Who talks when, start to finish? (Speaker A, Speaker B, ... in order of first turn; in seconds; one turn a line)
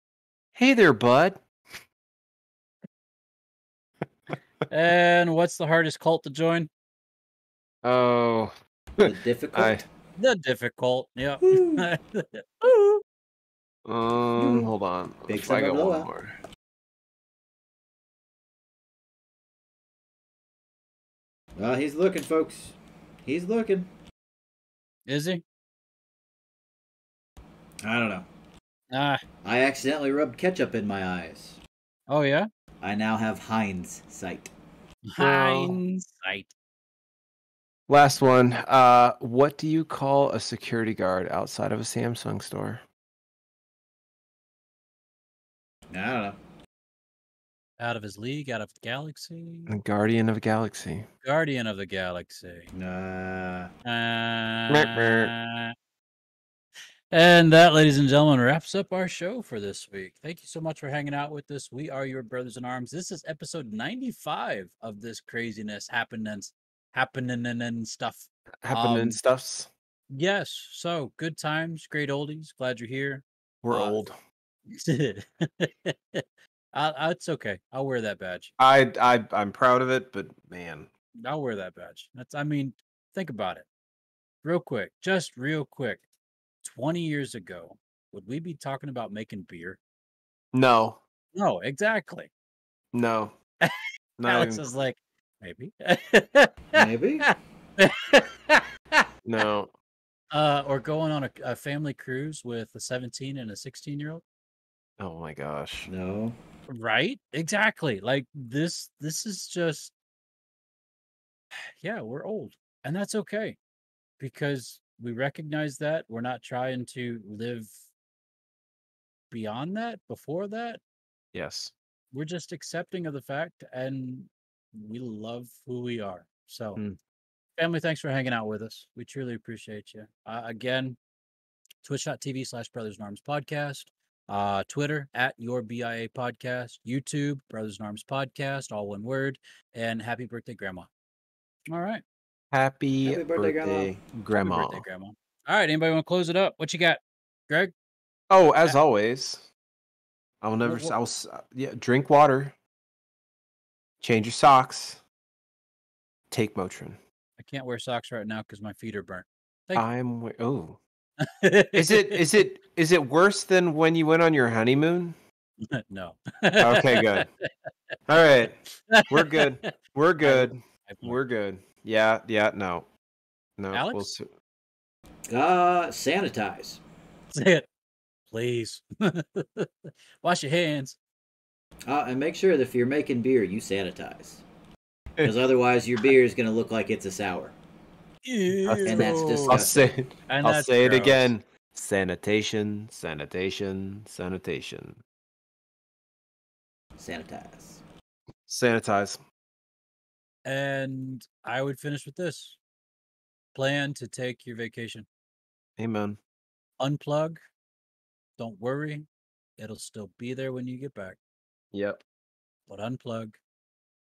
Speaker A: 0.6-1.4
Speaker B: 4.7-6.7
Speaker A: 7.8-9.8
Speaker C: 9.0-9.8
Speaker B: 10.2-13.0
Speaker C: 11.4-11.9
Speaker A: 13.8-16.3
Speaker C: 14.4-14.7
Speaker C: 15.3-16.1
Speaker C: 21.6-23.9
Speaker B: 25.1-25.4
Speaker C: 27.8-28.3
Speaker B: 28.9-29.2
Speaker C: 29.4-31.6
Speaker B: 32.1-32.5
Speaker C: 32.8-34.5
Speaker B: 35.1-36.5
Speaker A: 35.2-35.8
Speaker A: 37.9-42.8
Speaker C: 45.9-46.4
Speaker B: 47.8-49.7
Speaker A: 49.7-51.1
Speaker B: 51.2-52.7
Speaker C: 52.7-53.7
Speaker B: 53.8-55.7
Speaker A: 54.7-55.3
Speaker B: 57.1-69.2
Speaker A: 68.6-69.7
Speaker B: 70.1-74.0
Speaker A: 73.6-74.2
Speaker B: 74.7-76.2
Speaker B: 76.7-78.5
Speaker A: 78.6-80.9
Speaker B: 81.2-83.7
Speaker B: 84.4-86.0
Speaker B: 86.6-89.8
Speaker A: 90.5-91.0
Speaker B: 91.3-92.3
Speaker A: 92.9-93.3
Speaker A: 94.2-94.6
Speaker B: 94.3-99.0
Speaker C: 96.7-97.3
Speaker A: 99.2-99.7
Speaker B: 100.3-104.2
Speaker A: 105.0-105.9
Speaker C: 105.9-106.4
Speaker B: 106.7-109.9
Speaker B: 111.8-113.6
Speaker B: 114.2-117.8
Speaker B: 119.3-120.8
Speaker A: 121.3-121.7
Speaker B: 122.1-126.8
Speaker B: 127.6-131.0
Speaker B: 131.8-140.9
Speaker B: 141.7-142.0
Speaker A: 142.5-144.8
Speaker C: 143.0-143.9
Speaker B: 144.3-147.7
Speaker A: 148.3-149.5
Speaker A: 150.4-152.6
Speaker B: 150.6-150.9
Speaker A: 154.0-155.0
Speaker A: 156.3-157.0
Speaker B: 157.4-159.9
Speaker A: 159.7-160.8
Speaker B: 161.2-162.2
Speaker A: 161.7-165.2
Speaker B: 165.7-167.2
Speaker A: 166.6-167.3
Speaker A: 168.1-172.9
Speaker B: 168.7-171.2
Speaker A: 173.6-174.3
Speaker B: 173.7-174.1
Speaker C: 175.3-176.8
Speaker B: 177.3-177.7
Speaker B: 178.3-181.0
Speaker C: 181.9-184.4
Speaker C: 185.2-187.6
Speaker B: 188.2-189.6
Speaker A: 188.6-195.0
Speaker C: 188.8-189.9
Speaker B: 190.3-191.3
Speaker C: 197.0-197.8
Speaker A: 198.5-199.2
Speaker B: 200.4-202.6
Speaker B: 203.5-205.1
Speaker A: 205.8-206.2
Speaker B: 206.8-207.4
Speaker B: 208.4-211.2
Speaker A: 211.7-212.0
Speaker B: 212.7-213.4